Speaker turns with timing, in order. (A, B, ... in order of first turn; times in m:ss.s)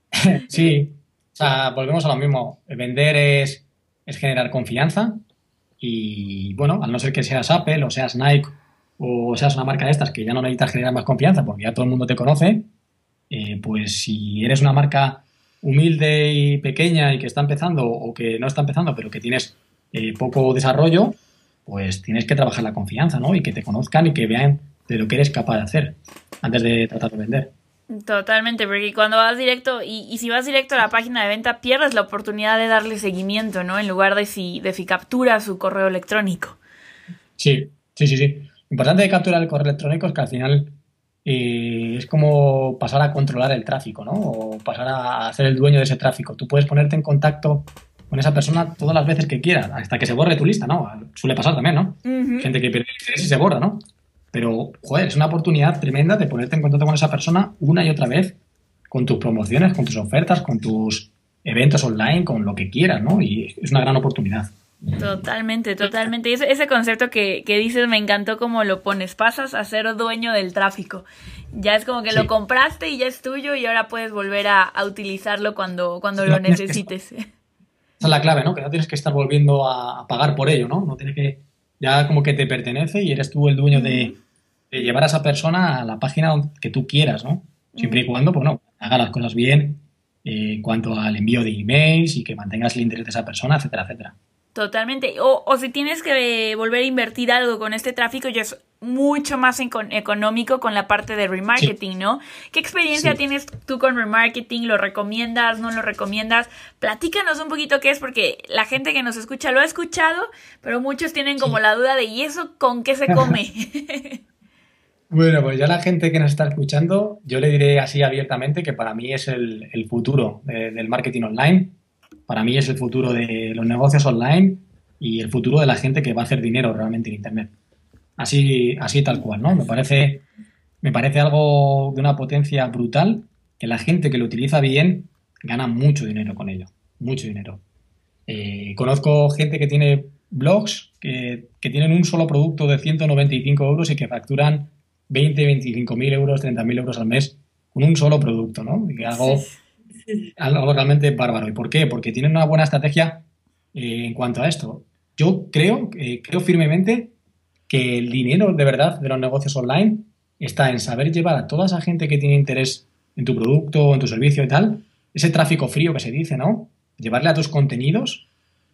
0:00.1-0:05.2 A
0:05.8-0:12.7 A
0:13.3-0:27.5 A
0:27.9-0:36.6 B
0:37.4-0:58.4 A
0:52.0-0:52.5 B
0:58.9-1:04.5 A
1:05.0-1:17.3 B
1:16.2-1:16.9 A
1:18.0-1:24.1 A
1:23.7-1:24.2 B
1:24.7-1:34.2 A
1:27.7-1:28.0 B
1:34.6-1:54.2 B
1:55.1-2:01.8 A
2:02.3-2:07.5 A
2:08.2-2:10.2 A
2:10.8-2:17.6 A
2:18.3-2:29.5 A
2:29.0-2:29.6 B
2:30.4-2:37.1 A
2:37.7-2:48.3 A